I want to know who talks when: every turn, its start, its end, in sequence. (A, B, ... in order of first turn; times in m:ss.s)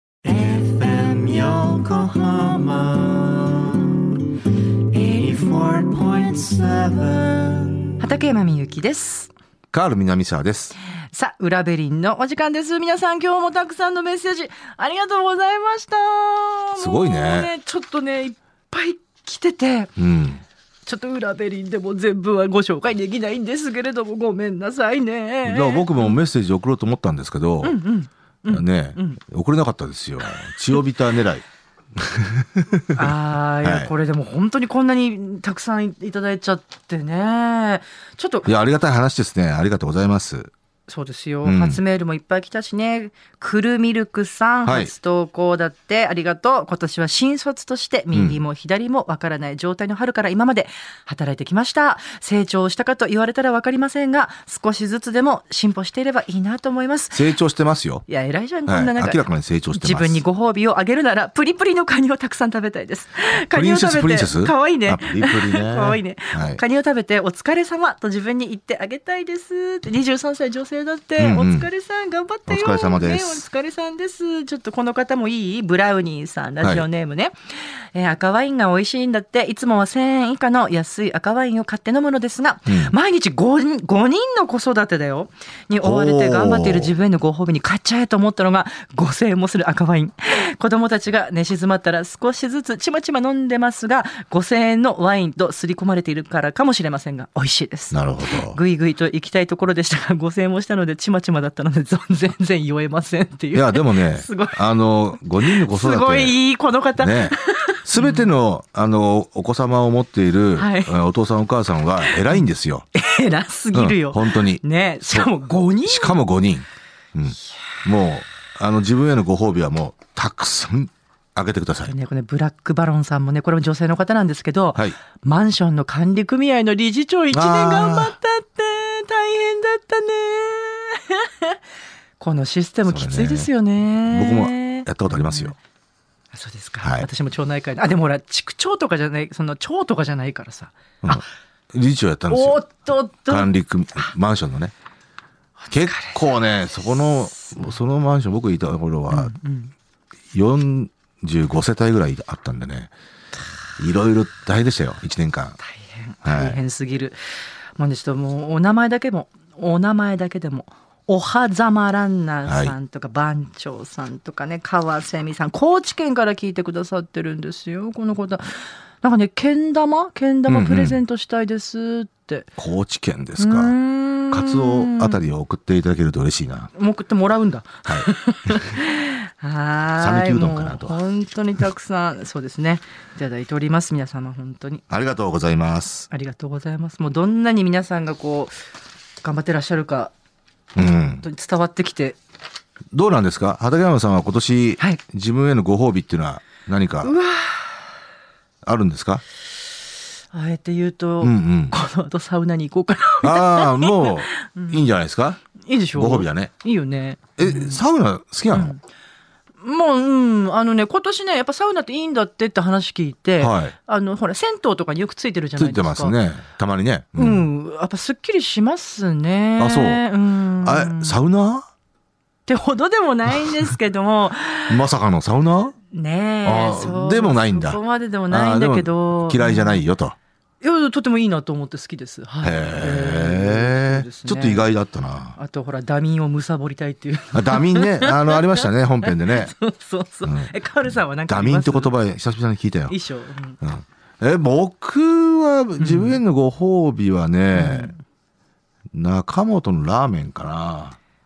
0:00.3-0:03.0 A
0:04.9-0:09.3 A
0:09.7-0:10.8 B
0:11.1-0:19.9 A
0:16.8-0:17.5 B
0:20.0-0:20.4 B
0:20.9-0:26.2 A
0:25.4-0:27.8 B
0:27.6-0:29.2 A
0:28.5-0:33.9 B
0:32.9-0:38.5 A
0:38.4-0:40.5 B
0:40.9-0:57.3 A
0:41.4-0:41.8 B
0:44.6-0:44.9 B
0:48.1-0:48.4 B
0:57.1-0:58.1 B
0:58.1-1:44.6 A
0:58.7-1:00.2 B
1:03.5-1:06.6 B
1:11.2-1:11.7 B
1:12.5-1:13.4 B
1:22.7-1:22.9 B
1:25.8-1:27.0 B
1:37.9-1:38.6 B
1:43.5-1:46.4 B
1:45.4-1:48.3 A
1:47.0-1:52.9 B
1:50.6-1:50.9 A
1:52.0-1:52.4 A
1:52.9-1:56.2 A
1:53.7-1:55.3 B
1:55.8-2:01.9 B
2:01.8-2:11.6 A
2:07.3-2:08.2 B
2:12.2-2:15.6 A
2:12.9-2:13.5 B
2:14.0-2:15.6 B
2:16.3-2:21.2 A
2:16.8-2:17.1 B
2:21.0-2:24.7 B
2:22.3-2:23.5 A
2:25.6-2:27.7 A
2:25.7-2:29.3 B
2:29.1-2:29.7 A
2:30.3-2:32.9 B
2:33.8-2:35.6 B
2:35.6-2:37.2 A
2:36.2-2:36.6 B
2:37.8-2:52.5 A
2:42.5-2:42.7 B
2:50.5-2:51.0 B
2:52.6-2:53.8 B
2:53.4-2:55.2 A
2:54.3-2:56.7 B
2:56.8-3:04.8 A
2:57.9-2:58.7 B
3:00.0-3:01.0 B
3:04.9-3:06.1 B
3:06.1-3:08.6 A
3:09.2-3:10.1 A
3:10.8-3:11.2 B
3:10.8-3:12.2 A
3:12.9-3:17.1 B
3:17.0-3:18.0 A
3:18.6-3:19.2 B
3:20.3-3:24.9 A
3:21.2-3:21.8 B
3:23.2-3:25.4 B
3:25.6-3:27.8 A
3:26.0-3:26.5 B
3:27.4-3:28.8 B
3:28.5-3:28.8 A
3:29.6-3:36.2 A
3:33.4-3:33.7 B
3:35.6-3:37.5 B
3:37.2-3:41.2 A
3:39.6-3:40.0 B
3:40.6-3:41.7 B
3:42.5-3:44.9 A
3:44.7-3:45.8 B
3:45.9-3:49.8 A
3:46.4-3:50.2 B
3:50.6-3:54.7 A
3:52.4-3:55.4 B
3:55.4-4:02.0 A
3:57.3-3:59.5 B
4:00.2-4:00.5 B
4:01.3-4:03.0 B
4:02.9-4:03.6 A
4:03.6-4:07.9 B
4:05.8-4:06.2 A
4:07.5-4:08.0 A
4:08.9-4:11.0 B